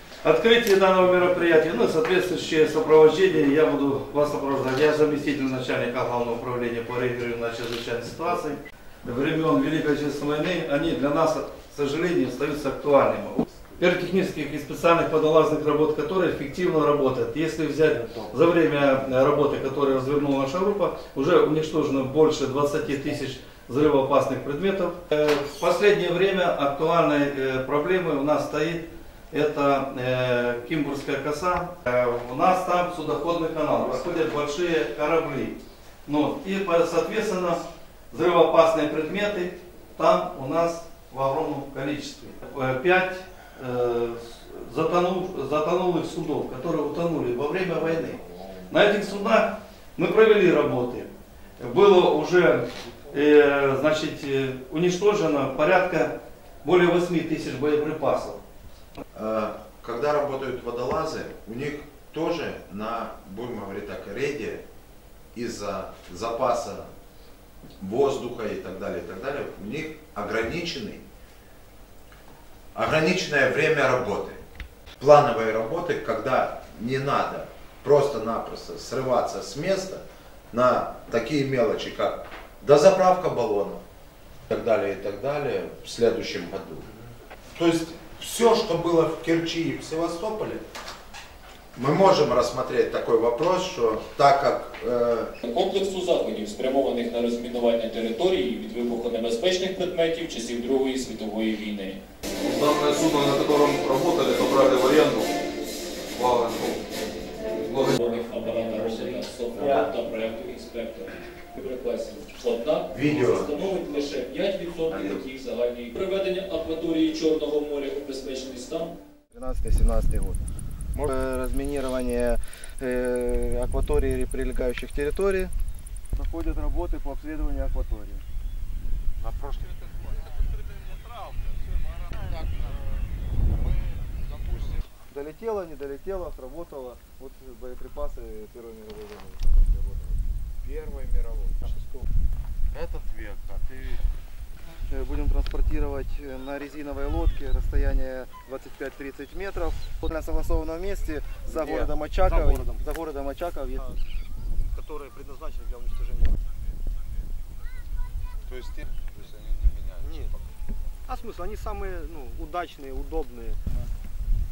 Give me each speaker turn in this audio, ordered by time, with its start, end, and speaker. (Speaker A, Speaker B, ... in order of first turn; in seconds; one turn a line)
Speaker A: 0.2-58.4
Speaker B: 59.1-64.7
Speaker B: 65.3-66.9
Speaker B: 67.8-71.0
Speaker B: 72.8-74.4
Speaker B: 75.0-83.8
Speaker B: 84.5-90.7
Speaker B: 91.8-95.3
Speaker C: 95.4-102.0
Speaker D: 102.4-105.3
Speaker D: 106.2-106.8
Speaker D: 107.7-108.0
Speaker C: 107.9-118.9
Speaker B: 109.6-109.9
Speaker B: 112.9-113.8
Speaker B: 114.9-115.2
Speaker E: 119.3-120.4
Speaker E: 121.0-125.5
Speaker E: 126.2-128.2
Speaker B: 129.2-130.2
Speaker B: 132.2-134.8
Speaker E: 135.1-140.2
Speaker B: 140.6-141.8
Speaker B: 142.7-144.1
Speaker E: 144.9-153.8
Speaker F: 151.6-152.8
Speaker F: 154.7-156.4
Speaker B: 158.5-160.4
Speaker F: 160.0-160.3
Speaker F: 161.1-163.6